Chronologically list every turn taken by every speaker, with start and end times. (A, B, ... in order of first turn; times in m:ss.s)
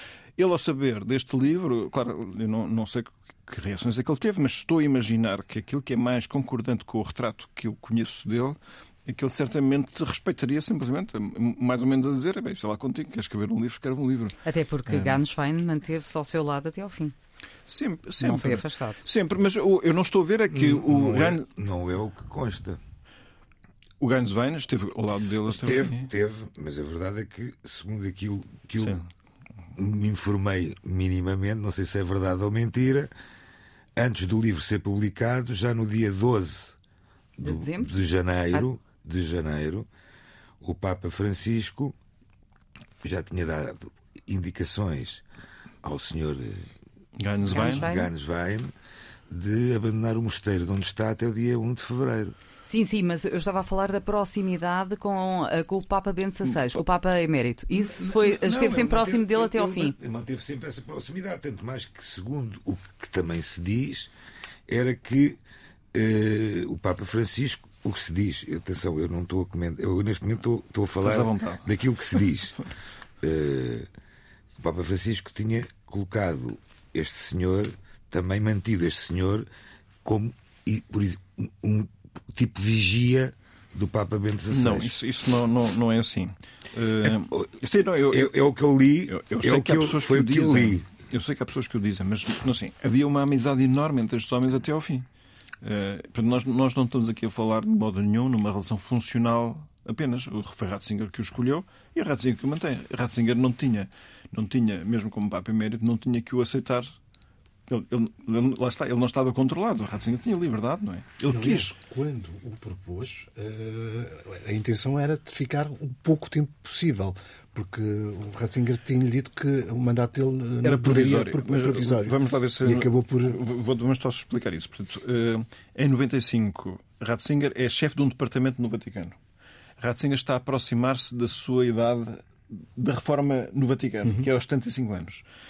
0:00.4-0:15.2 A
0:14.4-0:17.2 B
0:17.7-0:21.5 A
0:18.2-0:19.0 B
0:20.5-0:22.8 C
0:24.0-0:26.1 A
0:25.5-0:29.0 C
0:28.8-0:29.1 A
0:29.8-0:33.1 C
0:34.0-0:36.8 C
0:37.4-0:39.9 C
0:37.4-0:37.9 B
0:40.6-0:42.0 C
0:43.0-0:45.2 C
0:45.8-0:46.7 C
0:47.2-0:47.9 A
0:47.5-0:48.7 C
0:47.5-0:48.1 B
0:49.3-0:52.4 C
0:52.7-1:00.0 B
0:57.9-1:04.1 C
1:04.7-1:05.4 C
1:05.9-1:12.6 C
1:11.0-1:11.8 A
1:13.2-1:13.9 C
1:14.6-1:19.5 C
1:20.0-1:25.0 C
1:24.5-1:28.3 A
1:27.0-1:27.5 C
1:28.1-1:30.9 C
1:29.1-1:35.1 A
1:35.6-1:47.0 A
1:47.7-1:51.7 A
1:51.3-2:03.4 D
2:00.6-2:09.2 A
2:09.8-2:15.2 A